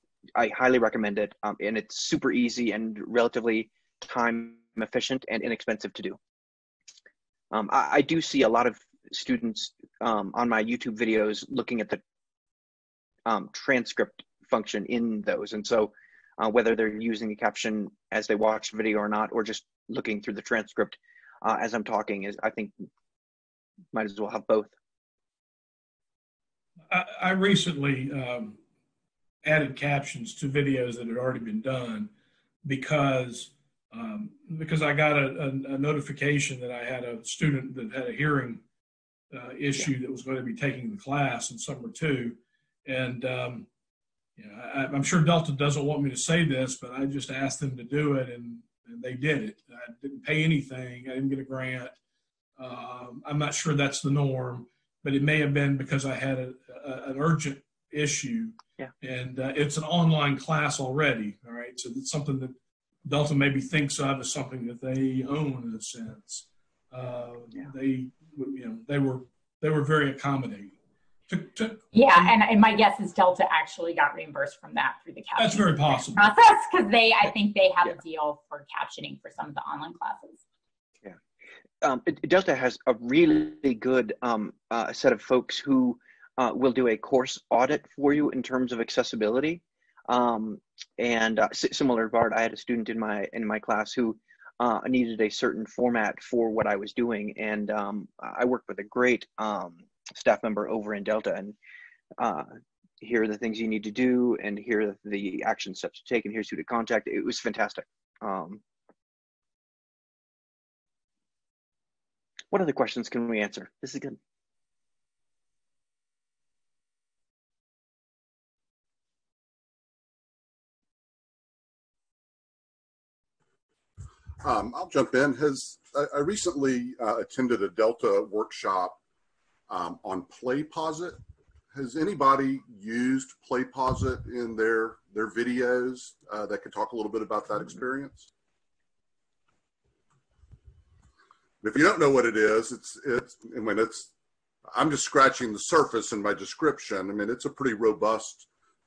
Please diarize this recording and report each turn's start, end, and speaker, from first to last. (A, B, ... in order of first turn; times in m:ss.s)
0:00.4-0:06.2 A
0:07.5-0:12.0 A
0:13.3-0:22.7 A
0:23.9-0:24.7 A
0:26.9-0:28.6 B
0:29.4-0:32.1 B
0:32.6-0:38.6 B
0:39.3-0:43.7 B
0:44.4-0:52.0 B
0:52.6-1:10.8 B
1:11.3-1:12.3 B
1:11.9-1:20.4 C
1:15.4-1:16.3 B
1:21.8-1:41.6 A
1:42.2-1:42.5 A
1:43.0-1:48.6 A
1:52.5-1:54.2 A
2:04.4-2:09.0 D
2:09.7-2:11.2 D
2:11.7-2:18.3 D
2:21.6-2:24.1 D
2:24.7-2:28.5 D